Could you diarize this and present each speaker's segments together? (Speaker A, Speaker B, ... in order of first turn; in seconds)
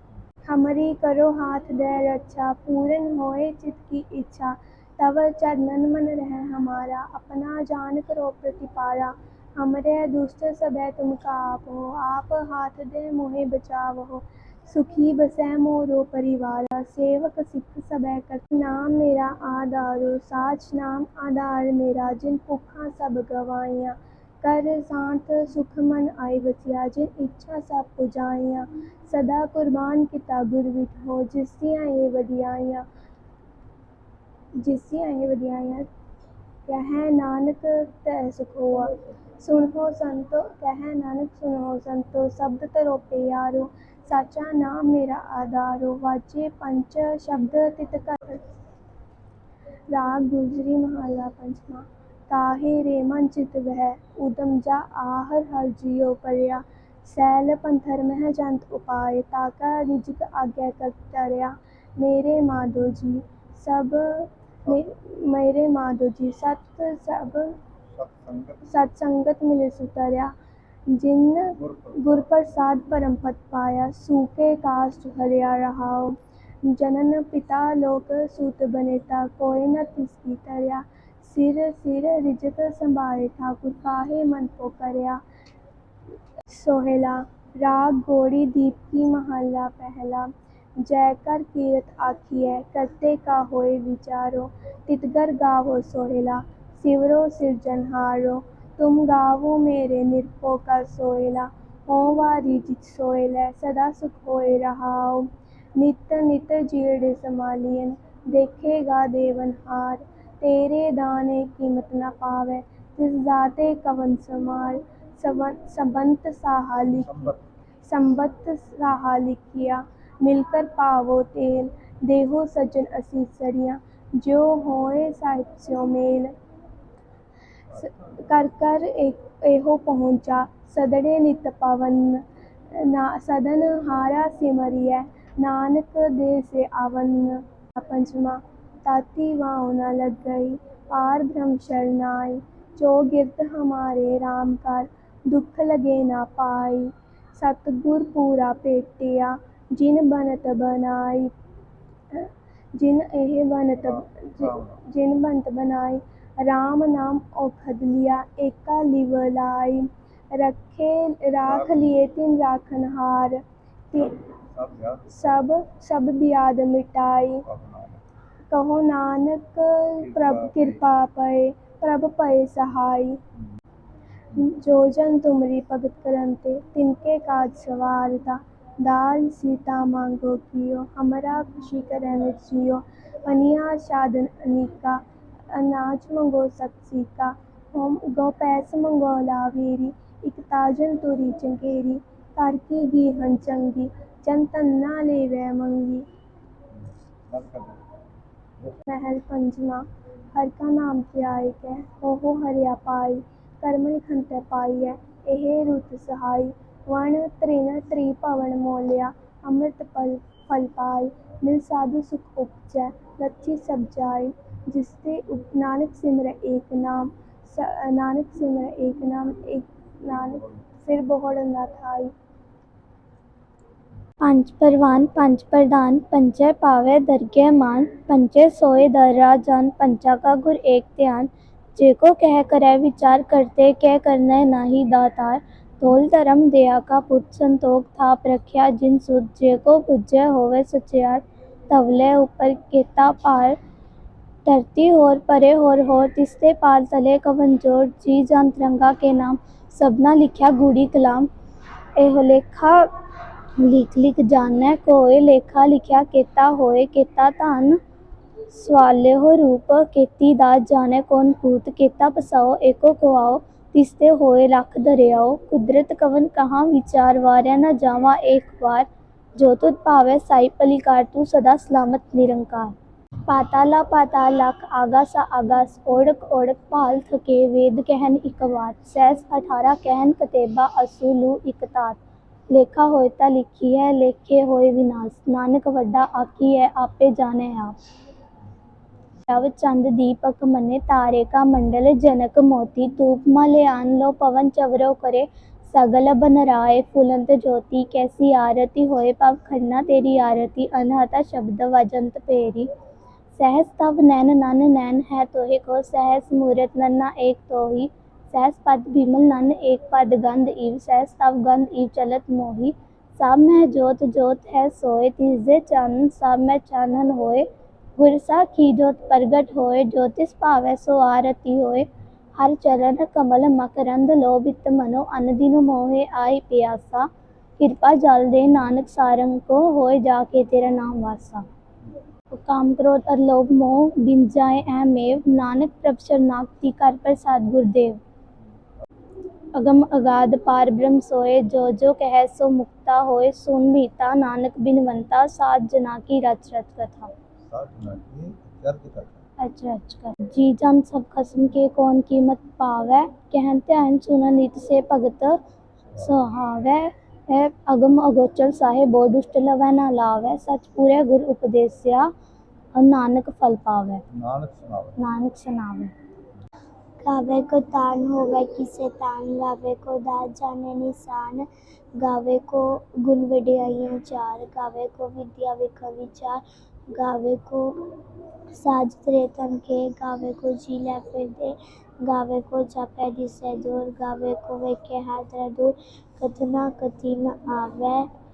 Speaker A: 0.5-32.9, 34.6-35.9, 36.7-48.4, 49.9-67.6, 68.7-70.3, 70.9-85.2, 86.5-90.3, 90.8-117.1, 117.8-126.3, 127.7-132.2, 132.7-151.3, 152.1-163.4, 165.1-167.4, 168.5-173.2, 174.4-185.0, 185.5-196.1, 198.9-222.1
Speaker B: 64.7-64.9, 67.9-68.7, 71.6-72.3, 116.8-117.4, 153.8-154.8, 161.4-161.9, 164.3-165.2, 167.5-168.0, 170.0-170.8, 196.8-197.8, 220.3-220.6, 347.5-349.2, 355.8-356.2, 364.1-365.0
Speaker C: 224.2-243.6, 244.4-251.3, 252.0-252.9, 253.6-257.8, 258.5-272.8, 273.3-282.0, 282.5-287.8, 289.3-302.7, 303.4-317.5, 318.0-327.1, 327.6-331.5, 332.3-338.0, 339.6-347.1, 349.4-355.4, 356.0-362.1, 362.8-364.0, 365.0-365.9
Speaker D: 367.0-371.5, 372.0-376.4, 376.9-377.7, 378.6-388.1